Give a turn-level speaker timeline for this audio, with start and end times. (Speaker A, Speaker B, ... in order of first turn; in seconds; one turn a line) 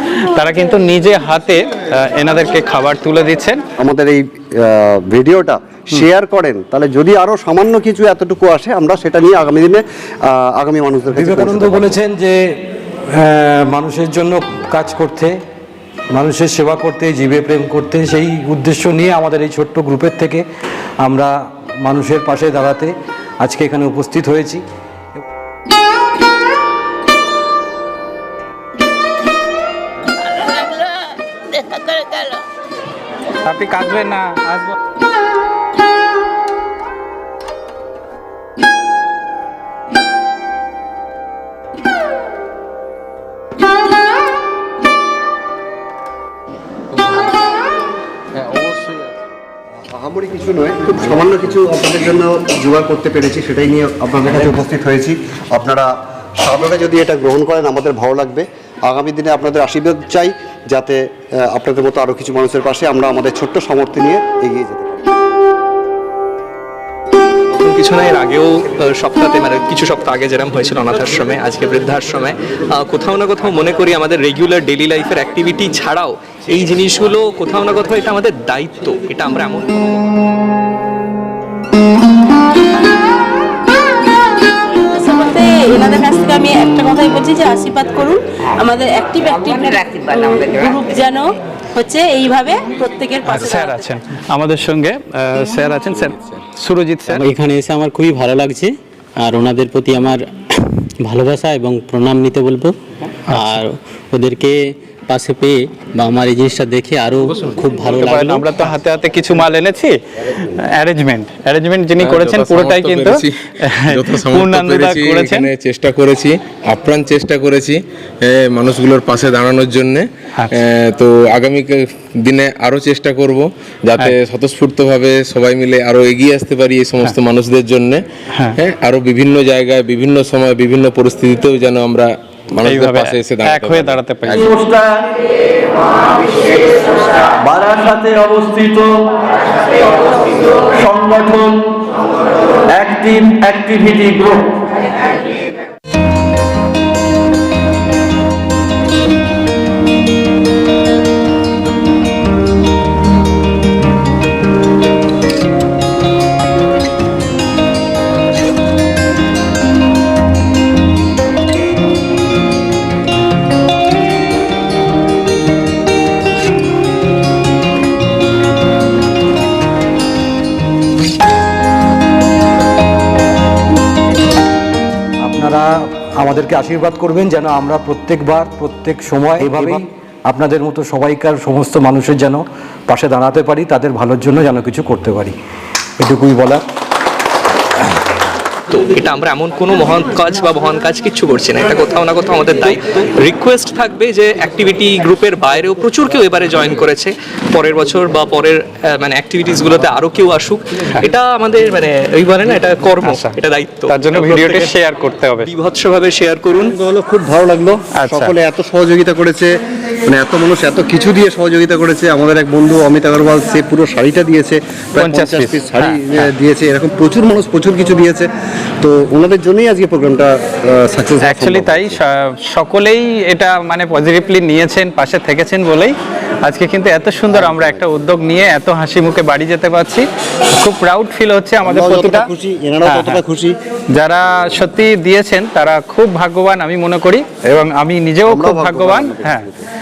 Speaker A: 0.3-3.6
Speaker B: 3.8-12.0
Speaker C: 11.1-15.4
Speaker C: 16.1-20.4
Speaker C: 21.0-24.6
Speaker D: 31.7-32.3
Speaker A: 33.5-34.8
Speaker B: 49.9-65.0
Speaker E: 67.5-79.8
Speaker D: 84.6-93.8
Speaker A: 93.2-97.2
Speaker F: 97.1-102.8
Speaker F: 103.3-104.6
Speaker A: 103.3-103.6
Speaker F: 105.1-108.6
Speaker A: 107.9-115.5
Speaker G: 112.0-128.0
Speaker G: 128.6-134.5
Speaker A: 132.7-134.5
Speaker H: 134.3-135.2
Speaker H: 137.4-139.1
Speaker H: 140.5-141.8
Speaker H: 142.7-144.6
Speaker C: 175.2-185.4
Speaker C: 186.0-186.6
Speaker E: 188.7-204.7
Speaker A: 203.0-203.4
Speaker A: 203.9-205.5
Speaker E: 205.4-206.7
Speaker B: 206.8-209.5
Speaker A: 207.9-208.3
Speaker B: 210.1-218.3
Speaker A: 215.0-216.3
Speaker B: 218.8-222.0
Speaker A: 221.2-232.3
Speaker B: 227.3-227.8
Speaker B: 231.6-233.6
Speaker A: 232.8-233.2
Speaker A: 233.9-239.5
Speaker B: 238.3-239.6